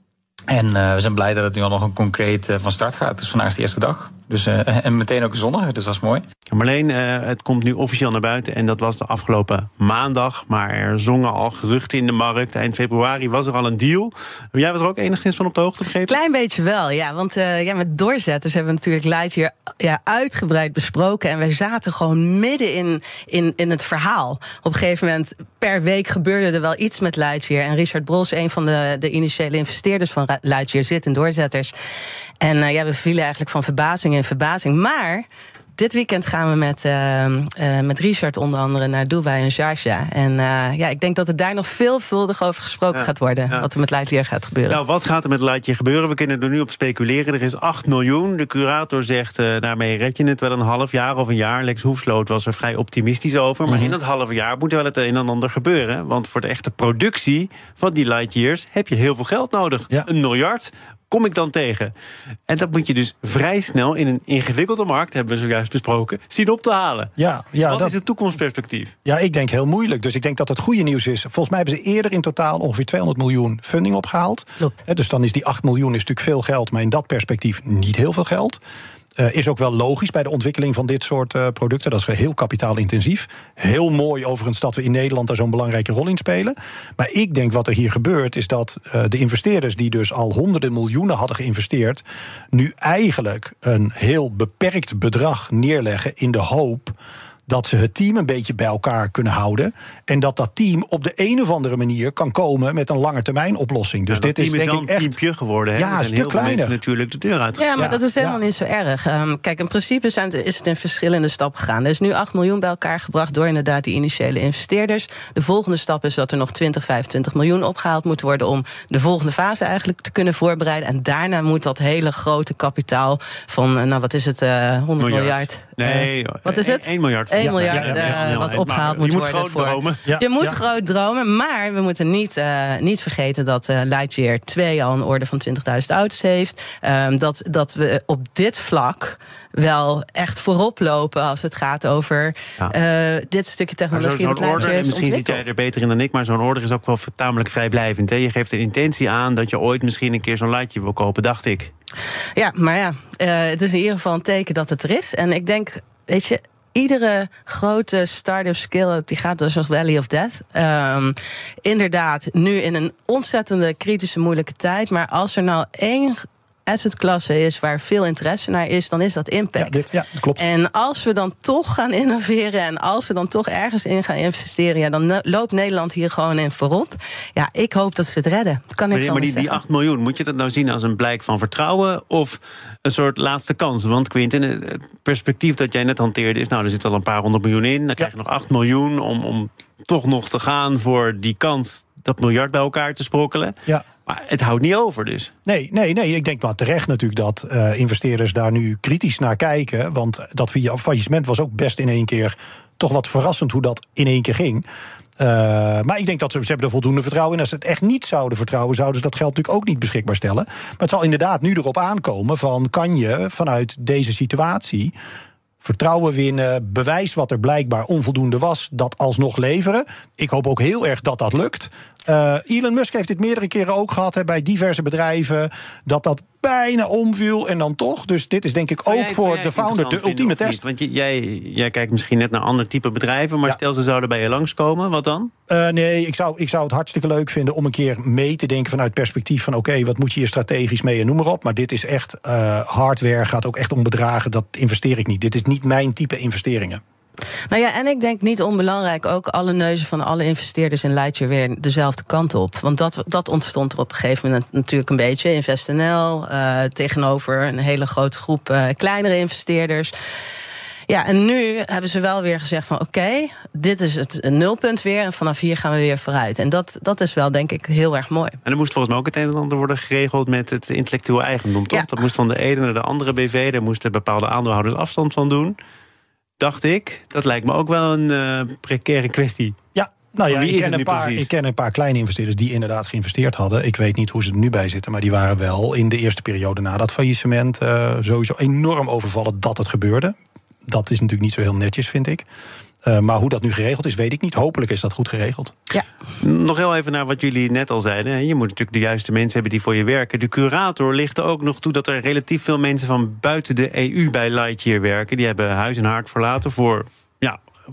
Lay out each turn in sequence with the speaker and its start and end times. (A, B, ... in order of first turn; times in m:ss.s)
0:00.5-0:06.3 A
0:06.5-0:16.1 B
0:16.0-0:31.7 C
0:32.4-0:44.8 C
0:42.9-0:43.7 B
0:44.7-1:01.9 B
0:53.7-0:54.0 D
1:02.5-1:07.1 B
1:07.2-1:08.0 D
1:07.7-1:08.9 B
1:09.0-1:18.6 D
1:19.2-1:37.0 D
1:37.5-1:45.2 D
1:44.1-1:47.9 B
1:45.8-1:46.8 D
1:47.6-2:25.4 C
1:47.8-1:48.4 D
2:05.0-2:10.0 B
2:07.4-2:08.2 D
2:10.1-2:10.6 D
2:23.9-2:31.7 B
2:32.4-2:59.6 C
2:49.6-2:50.4 D
2:58.9-3:13.6 B
3:14.1-3:15.3 B
3:15.5-3:24.6 D
3:25.2-3:34.9 D
3:35.6-3:50.6 D
3:48.8-3:55.3 B
3:55.5-4:06.8 D
4:07.5-4:19.9 C
4:20.9-4:28.4 C
4:28.4-4:35.6 B
4:36.4-4:39.6 B
4:39.8-4:50.2 D
4:40.3-4:41.3 B
4:50.7-4:52.2 D
4:52.8-4:55.6 D
4:56.2-5:07.4 B